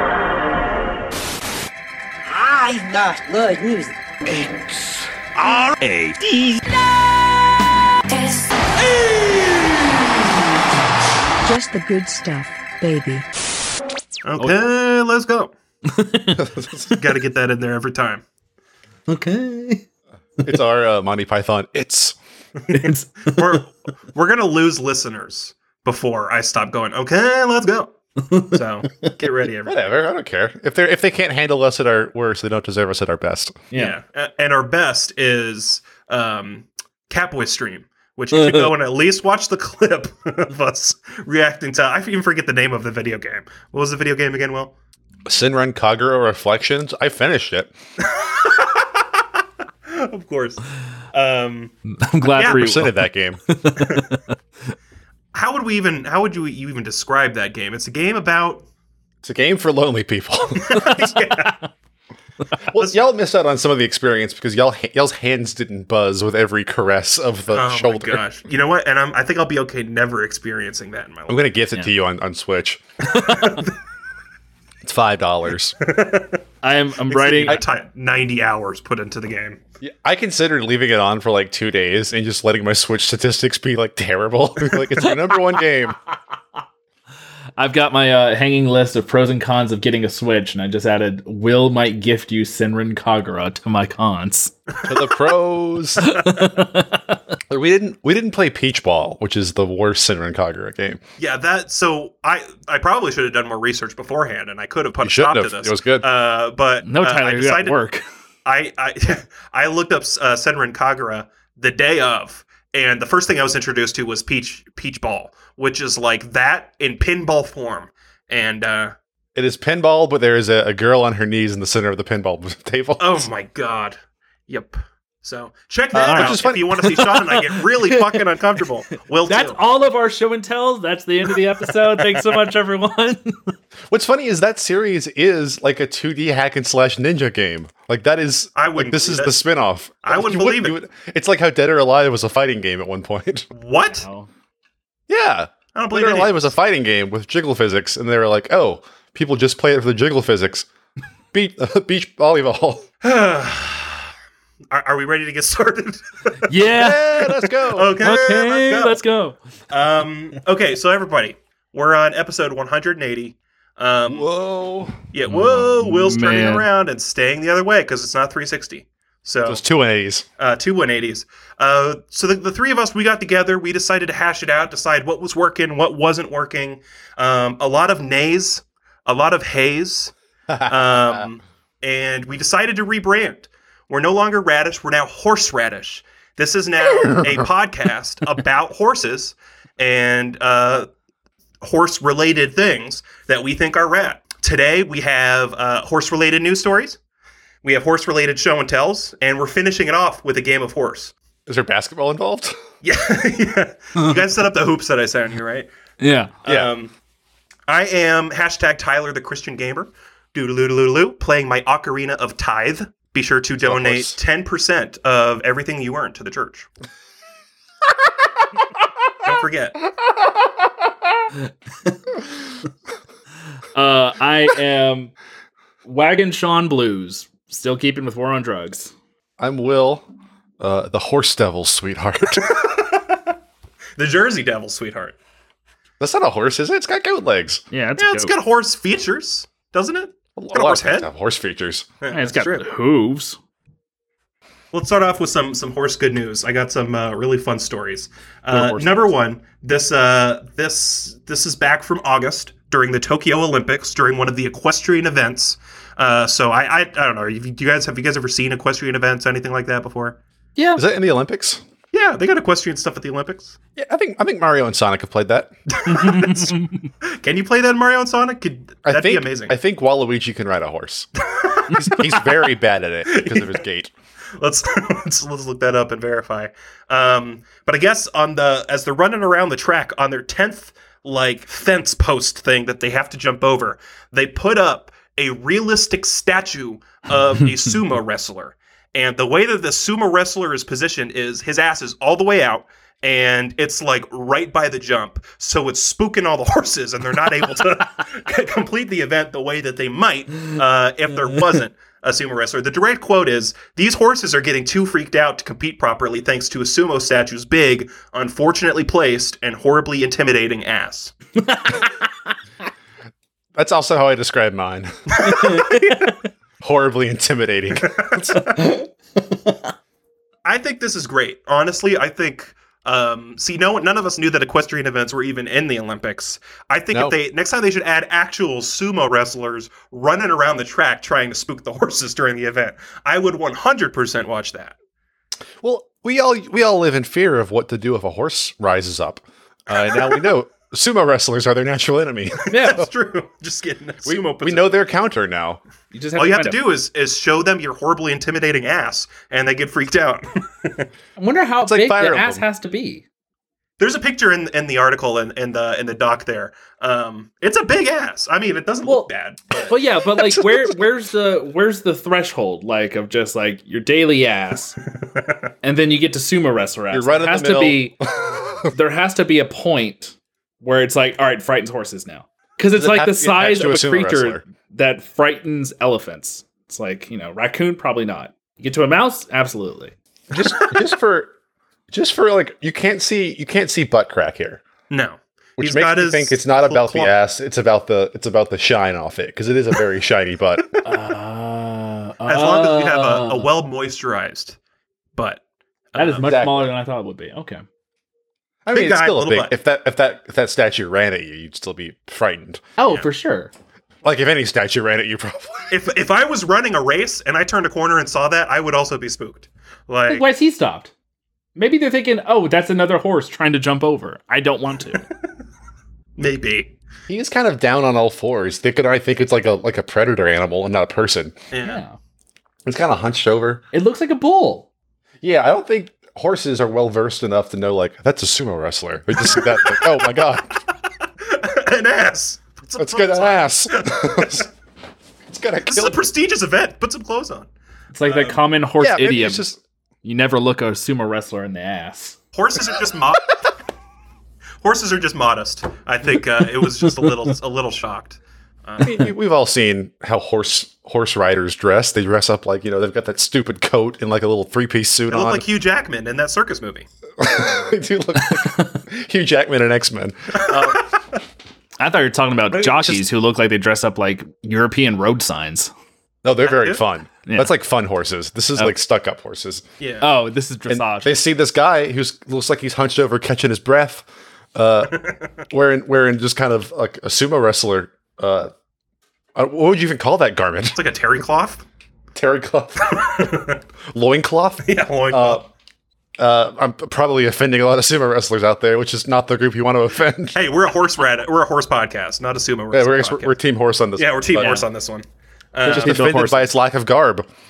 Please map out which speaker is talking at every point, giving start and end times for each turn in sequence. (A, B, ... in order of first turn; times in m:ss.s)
0:02.3-0:05.0 A
0:05.8-0:06.6 B
0:08.1-0:08.4 C
0:11.4-0:13.2 C
0:14.2-0:15.5 D
0:15.9-0:16.5 B
0:16.4-0:16.8 E
0:16.9-0:18.2 D
0:19.1-0:19.8 B
0:20.4-0:22.2 E
0:22.7-0:29.8 D
0:22.7-0:23.6 B
0:28.2-0:29.1 B
0:29.6-0:33.6 E
0:33.7-0:34.0 B
0:33.7-0:44.7 D
0:38.3-0:38.7 B
0:45.2-0:47.7 E
0:48.0-0:49.0 D
0:49.9-0:51.7 D
0:52.0-0:54.1 B
0:52.3-0:52.6 D
0:52.4-0:53.4 E
0:53.8-0:54.2 D
0:55.3-0:58.6 D
0:59.2-1:01.2 E
1:00.5-1:01.6 D
1:02.7-1:08.2 E
1:07.5-1:11.5 D
1:11.3-1:12.8 E
1:13.0-1:13.6 B
1:13.2-1:13.7 D
1:14.8-1:15.8 E
1:15.8-1:16.4 D
1:16.6-1:17.6 B
1:17.1-1:19.6 D
1:19.8-1:26.0 E
1:27.6-1:34.5 B
1:34.8-1:36.1 E
1:36.0-1:37.2 B
1:37.5-1:41.0 E
1:41.2-1:47.8 D
1:45.0-1:46.0 E
1:46.8-1:48.0 B
1:48.4-1:58.9 D
1:59.3-2:03.2 E
2:03.0-2:09.6 D
2:05.9-2:06.9 E
2:06.1-2:08.2 B
2:09.2-2:13.5 B
2:13.9-2:23.5 E
2:18.5-2:19.4 D
2:20.0-2:20.8 D
2:23.5-2:24.0 D
2:24.0-2:24.3 B
2:25.1-2:30.7 E
2:25.7-2:26.5 D
2:31.3-2:32.9 E
2:33.0-2:34.1 D
2:34.7-2:36.5 D
2:36.5-2:37.3 B
2:36.6-2:38.0 E
2:37.6-2:39.0 D
2:38.0-2:39.4 B
2:39.7-2:44.3 D
2:44.1-2:45.0 E
2:45.1-2:49.6 D
2:45.3-2:46.6 B
2:49.4-2:50.2 E
2:50.4-3:10.9 D
3:00.5-3:01.2 E
3:07.1-3:07.4 E
3:11.6-3:17.0 D
3:17.6-3:21.1 D
3:21.5-3:22.5 E
3:22.8-3:25.7 D
3:26.0-3:26.3 B
3:26.4-3:26.9 D
3:26.4-3:26.7 E
3:27.7-3:36.7 D
3:33.6-3:34.1 E
3:39.2-3:39.8 D
3:43.7-3:45.1 B
3:45.8-3:48.9 B
3:49.4-3:50.0 E
3:50.6-3:52.5 E
3:52.4-3:53.2 D
3:54.0-3:55.1 D
3:56.0-3:57.6 E
3:57.7-3:58.3 B
3:58.0-4:01.1 D
4:00.4-4:01.9 E
4:02.0-4:02.6 D
4:02.1-4:03.4 B
4:04.7-4:20.2 D
4:08.5-4:09.0 E
4:20.6-4:20.8 B
4:20.8-4:21.6 E
4:21.9-4:23.6 D
4:23.8-4:25.5 E
4:25.7-4:29.5 D
4:25.9-4:26.8 B
4:28.8-4:31.1 E
4:31.3-4:32.2 D
4:31.7-4:32.0 B
4:31.7-4:33.9 E
4:33.0-4:33.6 D
4:34.4-5:11.1 D
5:11.4-5:11.9 B
5:13.5-5:15.3 E
5:15.2-5:16.2 B
5:15.2-5:15.5 D
5:16.6-5:18.4 E
5:17.8-5:18.5 D
5:18.4-5:18.8 B
5:20.4-5:34.8 D
5:35.6-5:42.8 E
5:39.9-5:40.2 D
5:42.4-5:44.8 D
5:42.5-5:42.9 B
5:44.0-5:45.6 E
5:45.9-5:46.6 B
5:46.2-5:50.9 D
5:51.2-5:53.0 B
5:51.6-5:52.4 E
5:53.8-5:59.7 D
5:58.8-6:04.8 B
6:00.1-6:00.8 E
6:05.6-6:08.0 B
6:06.9-6:08.7 E
6:08.7-6:19.9 B
6:12.7-6:14.4 E
6:20.3-6:21.3 E
6:21.9-6:24.6 E
6:24.9-6:27.1 D
6:25.6-6:30.7 E
6:30.8-6:33.5 B
6:32.2-6:34.6 D
6:35.2-6:35.4 D
6:35.9-6:36.3 D
6:35.9-6:37.6 B
6:36.2-6:36.7 E
6:38.6-6:42.6 E
6:38.7-6:39.5 D
6:42.8-6:43.5 B
6:44.0-6:45.7 E
6:45.7-6:50.2 D
6:50.1-6:50.9 B
6:51.6-6:55.0 B
6:56.2-6:56.7 D
6:57.1-7:01.4 E
7:01.5-7:01.8 D
7:01.6-7:02.0 B
7:02.6-7:03.6 E
7:03.7-7:04.7 B
7:05.2-7:10.6 E
7:09.3-7:10.0 D
7:11.2-7:14.5 D
7:12.8-7:14.5 E
7:15.3-7:16.1 E
7:15.6-7:17.5 D
7:17.9-7:19.4 B
7:18.0-7:18.4 D
7:18.8-7:19.6 E
7:20.0-7:22.2 B
7:22.3-7:23.5 D
7:24.6-7:29.0 D
7:28.8-7:35.4 E
7:35.1-7:36.9 D
7:37.2-7:40.8 E
7:38.2-7:38.8 B
7:40.3-7:41.0 D
7:41.8-7:45.7 B
7:42.5-7:43.0 E
7:46.2-7:49.6 E
7:46.4-7:46.8 D
7:47.2-7:47.5 B
7:49.8-7:50.1 D
7:50.0-7:51.2 B
7:50.7-7:58.5 E
7:54.9-7:55.2 D
7:59.4-8:00.8 E
8:00.7-8:01.6 D
8:02.1-8:05.4 E
8:02.8-8:03.6 D
8:04.6-8:05.4 D
8:06.2-8:10.4 E
8:10.3-8:13.4 D
8:12.7-8:14.6 E
8:14.0-8:16.1 D
8:14.4-8:14.6 B
8:15.6-8:16.5 B
8:15.6-8:17.2 E